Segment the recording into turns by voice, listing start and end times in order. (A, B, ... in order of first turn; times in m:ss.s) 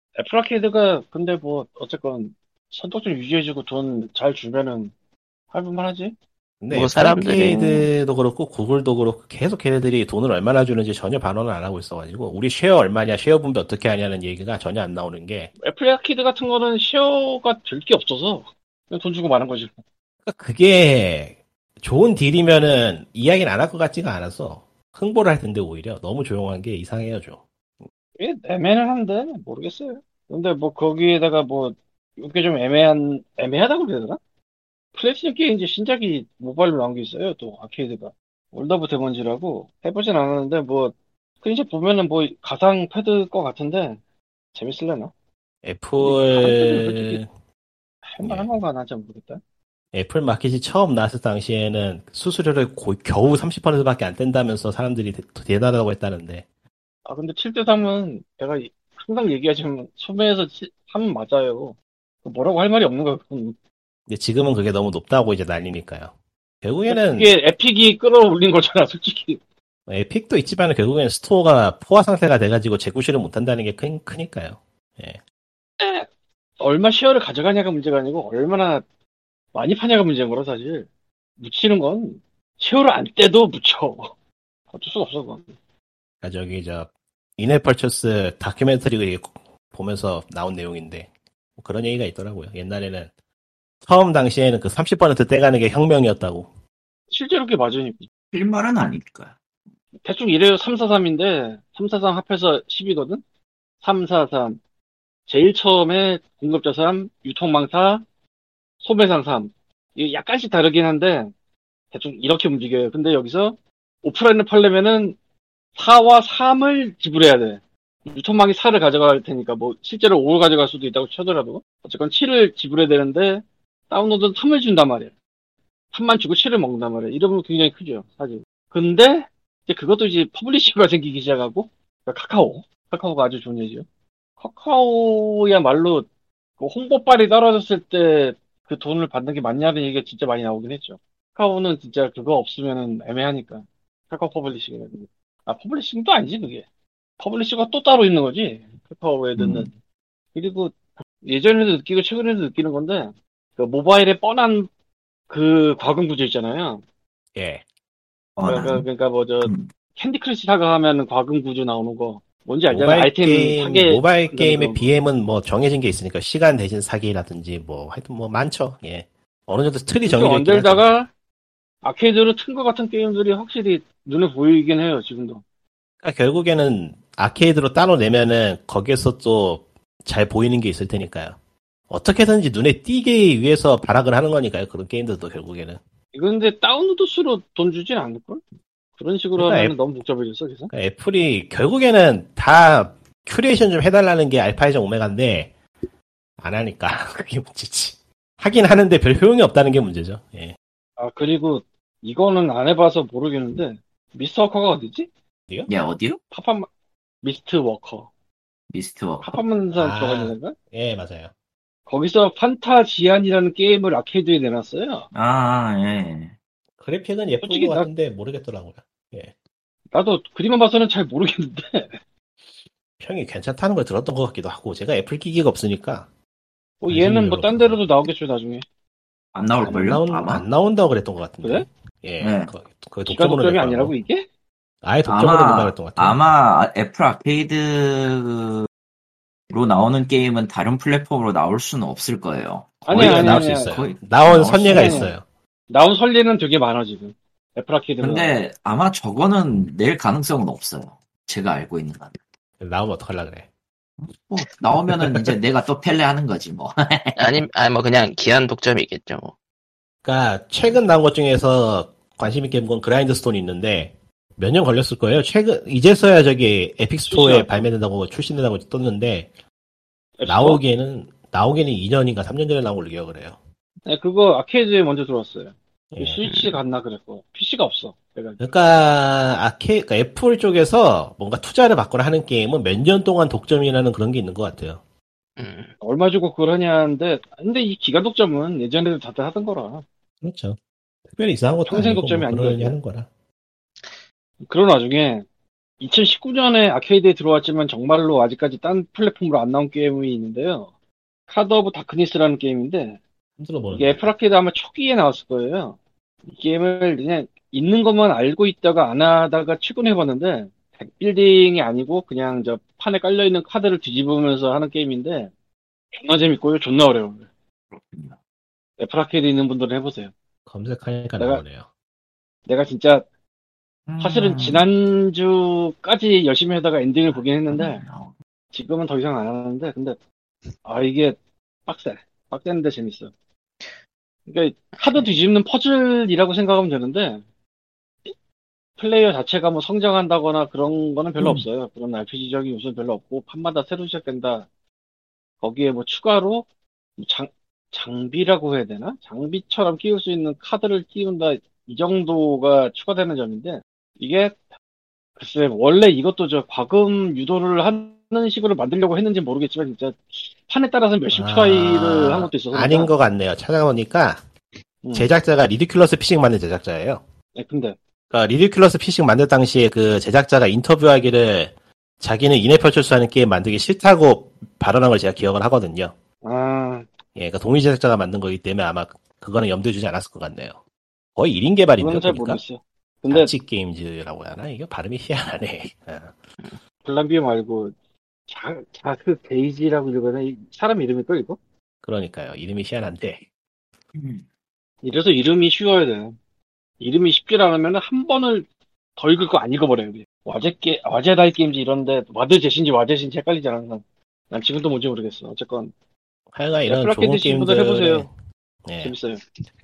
0:00.2-0:04.9 A
0:05.5-0:06.1 A
0:06.6-0:15.5 B
0:06.7-0:07.8 C
0:15.6-0:19.8 A
0:20.2-0:27.4 B
0:28.2-0:34.2 A
0:34.9-0:44.0 A
0:44.6-0:45.1 A
0:45.6-0:47.3 B
0:46.0-0:47.2 A
0:48.0-0:49.4 A
0:48.2-0:48.5 B
0:49.9-0:56.4 B
0:57.0-1:03.6 A
1:04.1-1:07.3 B
1:06.9-1:09.4 A
1:09.9-1:15.2 B
1:15.8-1:16.1 A
1:16.6-1:18.8 A
1:19.5-1:20.9 A
1:21.4-1:24.1 A
1:24.7-1:25.5 A
1:26.2-1:33.1 B
1:33.8-1:36.5 B
1:37.1-1:38.0 A
1:38.3-1:39.4 D
1:40.0-1:43.2 A
1:43.8-1:44.6 A
1:45.3-1:48.0 A
1:48.8-1:51.3 A
1:51.9-1:55.2 A
1:55.8-2:05.1 A
2:05.9-2:13.8 A
2:14.4-2:16.1 A
2:16.6-2:26.6 A
2:27.2-2:29.7 A
2:29.4-2:29.7 D
2:30.3-2:34.7 A
2:35.3-2:36.8 A
2:37.4-2:37.6 B
2:38.4-2:38.9 D
2:38.4-2:44.9 A
2:39.4-2:39.7 D
2:42.7-2:50.9 B
2:50.0-2:51.1 A
2:51.8-2:55.4 A
2:56.0-3:01.4 B
3:01.9-3:05.8 B
3:06.1-3:08.4 A
3:09.0-3:10.7 A
3:09.4-3:09.7 B
3:10.7-3:15.5 B
3:16.4-3:20.6 B
3:21.0-3:25.1 A
3:25.7-3:26.2 D
3:26.3-3:26.7 A
3:27.2-3:28.1 A
3:28.7-3:29.4 D
3:29.2-3:30.6 A
3:29.7-3:31.3 B
3:31.9-3:35.1 A
3:35.1-3:36.3 D
3:36.8-3:39.3 B
3:37.4-3:37.9 A
3:39.9-3:41.9 A
3:43.0-3:46.1 B
3:46.8-3:48.6 A
3:46.9-3:47.8 B
3:49.3-3:50.4 D
3:49.6-3:53.9 B
3:52.2-3:52.5 D
3:53.1-3:54.2 A
3:54.8-3:56.2 B
3:55.0-3:58.7 D
3:59.5-4:05.1 D
4:02.9-4:03.7 A
4:02.9-4:05.2 B
4:04.6-4:05.1 A
4:05.7-4:08.4 A
4:08.0-4:12.2 D
4:12.6-4:13.5 B
4:14.0-4:17.4 D
4:17.2-4:19.3 C
4:20.0-4:29.3 B
4:27.1-4:27.7 A
4:30.2-4:30.6 A
4:30.3-4:33.4 B
4:33.9-4:38.4 A
4:35.9-4:36.2 B
4:36.2-4:36.6 C
4:38.4-4:44.8 B
4:45.4-4:45.7 C
4:45.8-4:49.8 A
4:50.2-4:53.1 B
4:51.6-4:52.8 A
4:54.4-4:55.2 A
4:55.8-5:00.7 A
5:01.3-5:03.0 A
5:03.4-5:04.1 B
5:03.7-5:15.3 A
5:15.9-5:17.2 A
5:17.7-5:18.2 D
5:18.8-5:20.1 A
5:20.5-5:21.7 B
5:22.5-5:23.0 A
5:23.9-5:24.7 D
5:24.0-5:27.8 A
5:27.1-5:28.1 D
5:28.5-5:30.0 A
5:30.6-5:33.1 A
5:34.3-5:37.2 A
5:38.8-5:44.5 A
5:41.2-5:41.4 D
5:45.4-5:46.4 A
5:47.0-5:54.4 A
5:55.2-6:02.9 A
6:01.1-6:04.2 B
6:04.8-6:05.1 A
6:04.9-6:07.0 B
6:07.4-6:07.8 A
6:08.1-6:15.9 B
6:16.2-6:16.9 A
6:17.1-6:20.6 B
6:21.2-6:22.4 B
6:21.8-6:23.3 A
6:23.1-6:26.1 B
6:26.8-6:27.7 A
6:28.3-6:31.4 A
6:31.8-6:33.2 B
6:33.9-6:34.2 D
6:34.8-6:36.2 A
6:36.8-6:45.7 A
6:46.3-6:48.1 B
6:46.7-6:48.1 A
6:48.6-6:48.9 B
6:48.8-6:49.2 A